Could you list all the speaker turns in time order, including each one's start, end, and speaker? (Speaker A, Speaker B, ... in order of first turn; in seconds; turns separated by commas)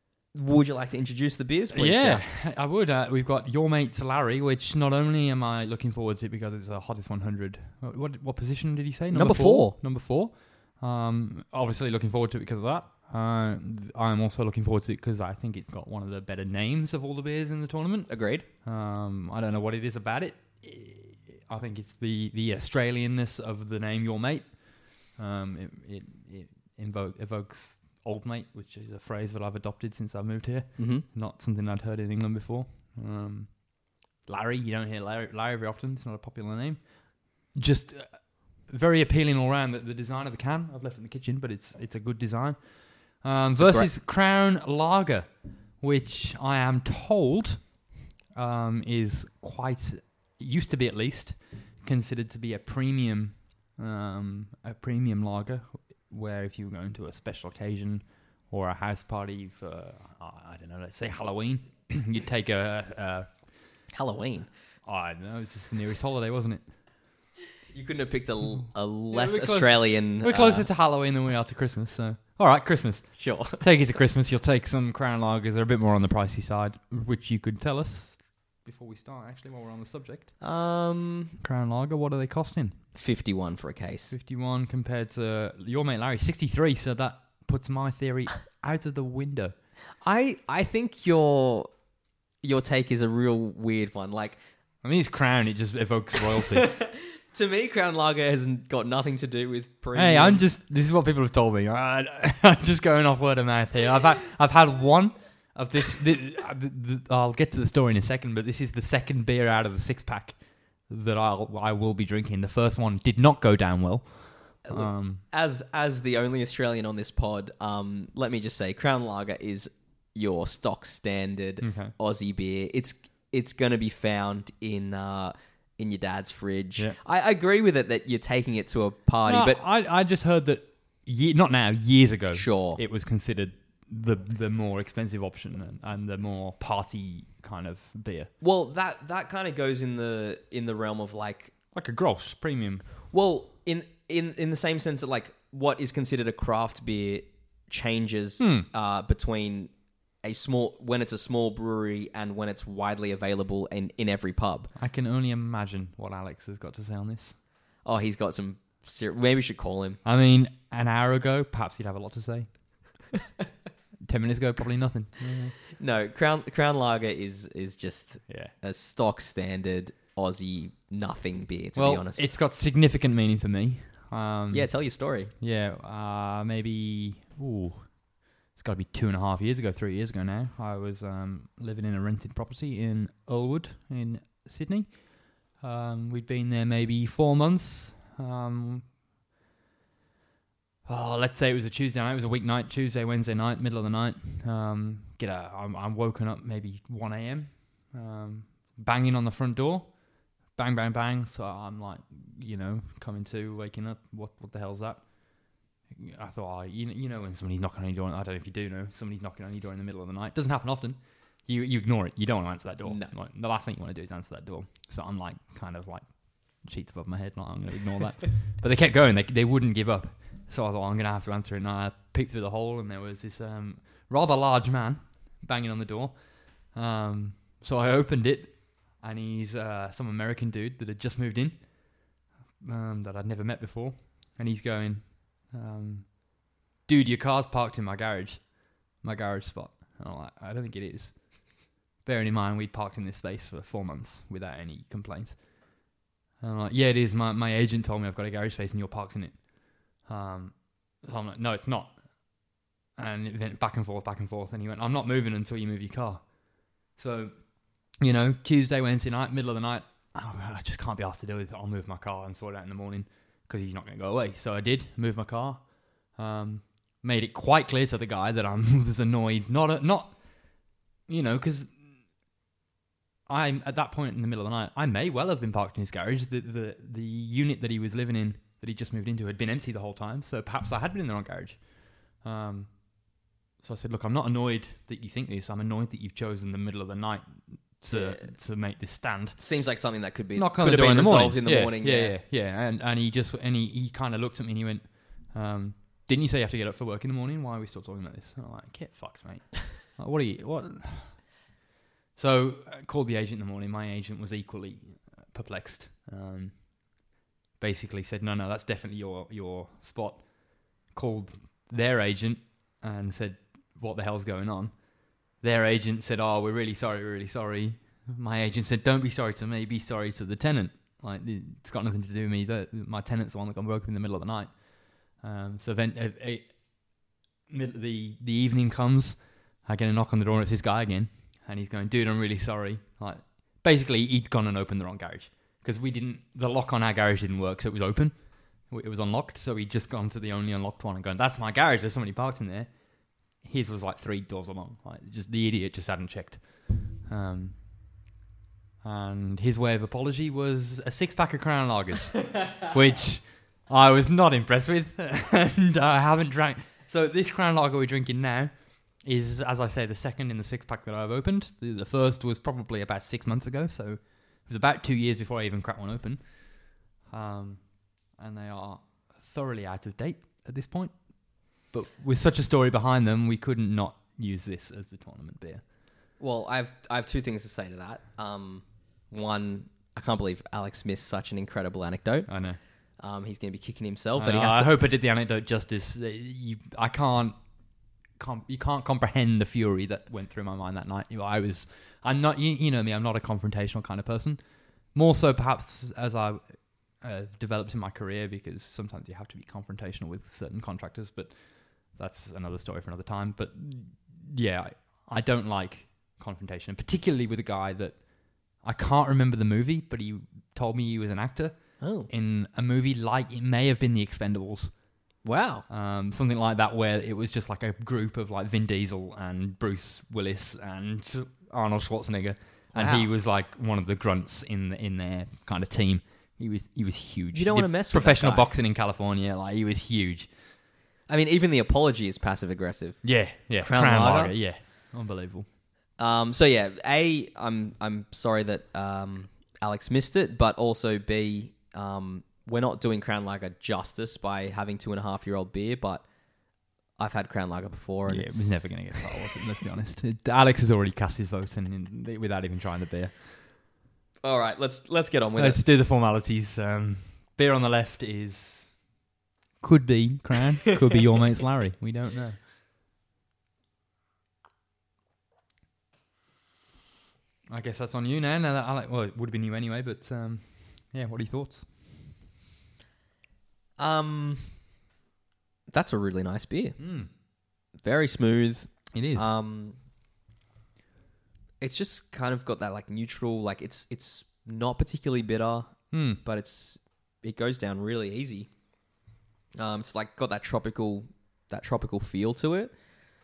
Speaker A: 0.3-2.3, Speaker B: 1.7-63.4, Speaker A: 9.1-9.8, Speaker A: 18.1-18.5, Speaker A: 30.8-31.1, Speaker A: 43.6-43.9, Speaker A: 63.9-64.5, Speaker B: 64.8-66.7, Speaker A: 67.7-70.7, Speaker B: 69.1-80.3, Speaker A: 73.2-73.6, Speaker A: 80.4-81.4, Speaker B: 81.4-82.8, Speaker A: 83.0-84.2, Speaker B: 84.1-89.5, Speaker A: 90.0-91.7, Speaker A: 92.4-94.4, Speaker B: 94.8-96.8, Speaker A: 96.4-100.5, Speaker B: 99.9-115.2, Speaker A: 114.7-129.6, Speaker B: 121.6-121.9, Speaker B: 129.2-138.3, Speaker A: 132.3-132.8, Speaker A: 138.4-141.5, Speaker B: 141.7-142.9, Speaker A: 143.1-154.7, Speaker B: 148.4-148.7, Speaker B: 154.8-157.4, Speaker A: 157.8-160.0, Speaker B: 160.1-162.5, Speaker B: 164.0-165.6, Speaker A: 165.8-172.3, Speaker B: 168.3-168.5, Speaker B: 171.8-188.9, Speaker A: 174.5-175.3, Speaker B: 190.8-245.8, Speaker A: 212.8-213.1, Speaker B: 246.4-271.9, Speaker B: 273.3-289.4, Speaker A: 287.9-288.3, Speaker A: 289.4-292.2, Speaker B: 290.4-301.3, Speaker B: 302.2-347.6, Speaker B: 348.8-375.6, Speaker A: 376.2-384.7, Speaker B: 382.3-382.6, Speaker B: 384.2-414.8, Speaker A: 411.8-412.1, Speaker A: 415.2-415.6, Speaker B: 415.7-430.3, Speaker A: 422.7-423.1, Speaker A: 427.3-428.5, Speaker A: 431.1-434.4, Speaker B: 433.0-435.5, Speaker A: 436.0-446.1, Speaker A: 446.9-449.4, Speaker B: 448.1-453.3, Speaker A: 454.2-455.6, Speaker B: 455.4-458.9, Speaker B: 459.6-462.4, Speaker B: 467.5-471.7, Speaker A: 473.8-474.5, Speaker A: 475.7-476.8, Speaker B: 476.8-477.1, Speaker A: 477.8-479.8, Speaker B: 478.9-479.3, Speaker A: 481.6-488.5, Speaker B: 485.9-486.2, Speaker A: 489.6-492.8